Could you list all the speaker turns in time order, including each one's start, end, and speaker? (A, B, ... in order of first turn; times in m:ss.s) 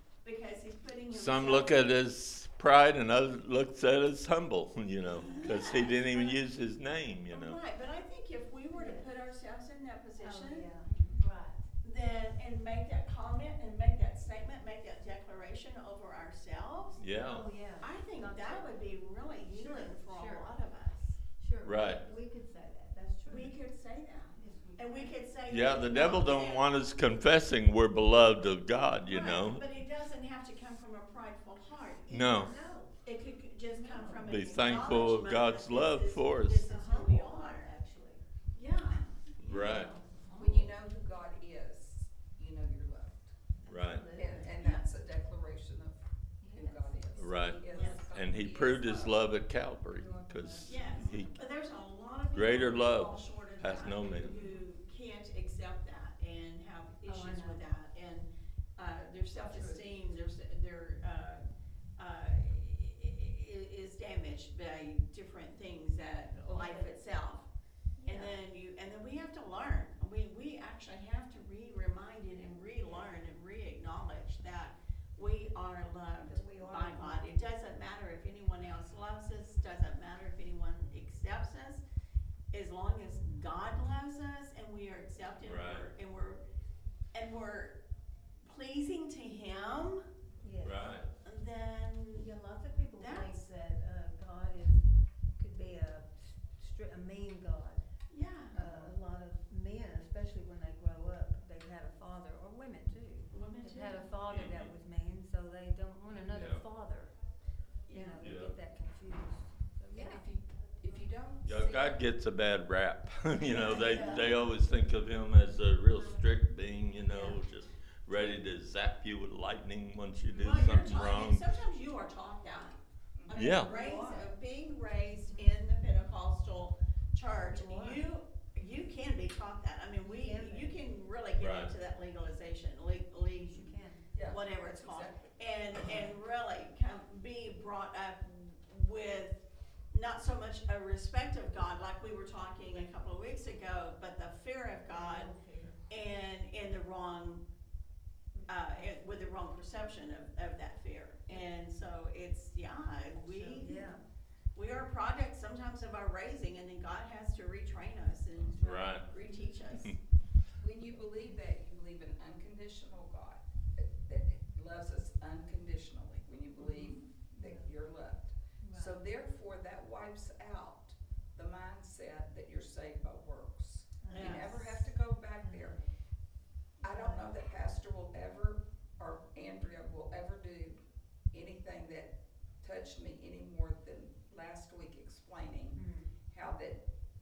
0:00.2-0:01.9 A
0:01.1-0:07.6 B
0:05.2-0:06.4 A
0:07.3-0:10.8 A
0:08.7-0:09.0 C
0:10.2-0:11.7 C
0:11.8-0:17.0 A
0:17.0-0:17.4 B
0:17.1-0:18.7 C
0:17.8-0:21.2 A
0:19.5-0:20.5 C
0:21.4-0:23.5 C
0:21.6-0:22.0 B
0:23.2-0:26.7 A
0:24.3-0:25.2 C
0:25.5-0:29.6 B
0:29.1-0:37.8 A
0:32.1-0:32.5 B
0:32.4-0:33.0 C
0:33.7-0:34.3 C
0:34.2-0:36.6 B
0:36.6-0:38.2 C
0:38.5-0:39.9 A
0:39.0-0:40.7 C
0:39.4-0:39.9 B
0:40.4-0:43.3 D
0:43.6-0:44.8 C
0:43.7-0:44.0 B
0:44.2-0:49.2 D
0:46.4-0:46.9 C
0:47.2-0:51.3 B
0:47.7-0:48.1 C
0:47.7-0:48.1 A
0:49.9-0:51.2 C
0:50.6-1:01.4 A
0:52.3-0:54.3 B
0:57.0-0:57.6 C
0:59.3-0:59.9 C
1:02.0-1:07.5 A
1:06.4-1:06.9 C
1:08.0-1:08.4 C
1:08.0-1:21.8 A
1:16.2-1:17.3 C
1:22.5-1:26.4 A
1:25.4-1:25.9 B
1:27.1-1:27.8 A
1:28.4-1:30.0 A
1:30.4-1:30.9 C
1:30.6-1:31.1 B
1:31.2-1:32.3 A
1:32.2-1:34.8 C
1:33.0-1:33.4 A
1:35.3-1:37.8 C
1:38.1-1:38.6 A
1:38.5-1:47.1 C
1:43.3-1:44.1 A
1:44.3-1:44.7 B
1:46.3-1:46.6 B
1:47.9-1:50.3 C
1:47.9-1:48.2 A
1:48.2-1:48.5 B
1:49.9-1:52.0 D
1:51.4-2:01.4 B
1:53.5-1:54.3 C
1:57.1-1:57.4 C
2:00.3-2:25.4 A
2:00.4-2:00.7 C
2:03.2-2:04.2 D
2:03.3-2:03.7 B
2:07.4-2:08.0 C
2:10.0-2:10.9 C
2:11.4-2:11.7 B
2:13.4-2:14.1 C
2:14.1-2:15.3 D
2:24.9-2:25.8 C
2:25.9-2:27.4 A
2:28.3-2:29.2 C
2:28.5-2:33.9 A
2:33.2-2:34.0 C
2:34.5-2:40.0 A
2:38.6-2:39.5 C
2:38.6-2:39.0 B
2:40.6-2:55.8 D
2:46.6-2:47.7 C
2:48.6-2:49.0 C
2:54.0-2:54.9 C
2:55.4-2:55.9 C
2:56.8-3:00.8 D
2:56.8-2:57.3 C
3:01.3-3:06.8 D
3:05.7-3:06.1 C